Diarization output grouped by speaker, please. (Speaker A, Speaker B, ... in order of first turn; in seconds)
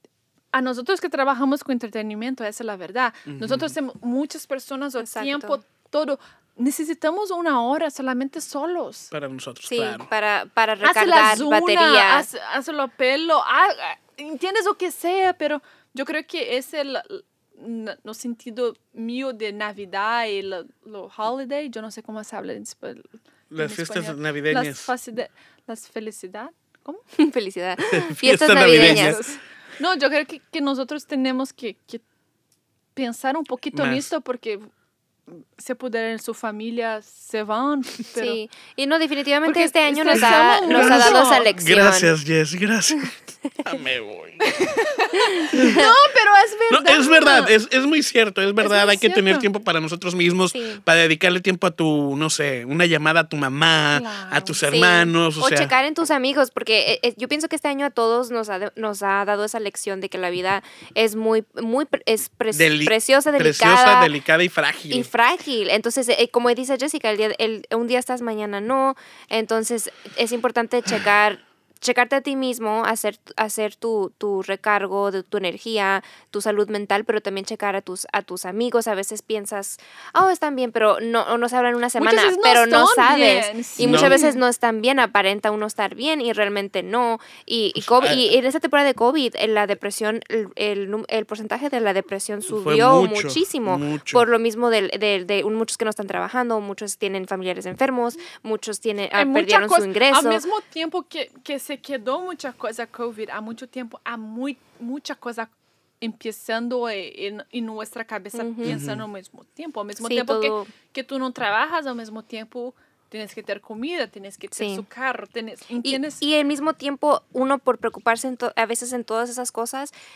Speaker A: 0.5-9.1, 10.8-23.1, 23.6-27.0, 28.6-32.0, 32.9-34.7, 35.3-38.4, 39.4-41.5, 44.6-47.5, 48.6-49.5, 53.9-54.6, 82.0-84.4, 99.1-105.5, 106.0-116.2
Speaker B: 3.3-3.7, 9.1-10.1, 23.5-24.9, 27.9-29.2, 33.7-34.0, 40.6-44.6, 45.5-45.8, 46.7-55.7, 62.5-65.1, 83.8-84.2, 87.8-88.3, 92.5-94.2, 108.6-109.0
Speaker C: 5.0-5.6, 9.7-12.3, 27.1-29.3, 38.1-42.1, 45.2-45.9, 50.5-50.8, 54.7-64.1, 64.9-100.4, 108.3-108.8, 110.0-110.7, 114.5-114.8, 115.8-119.9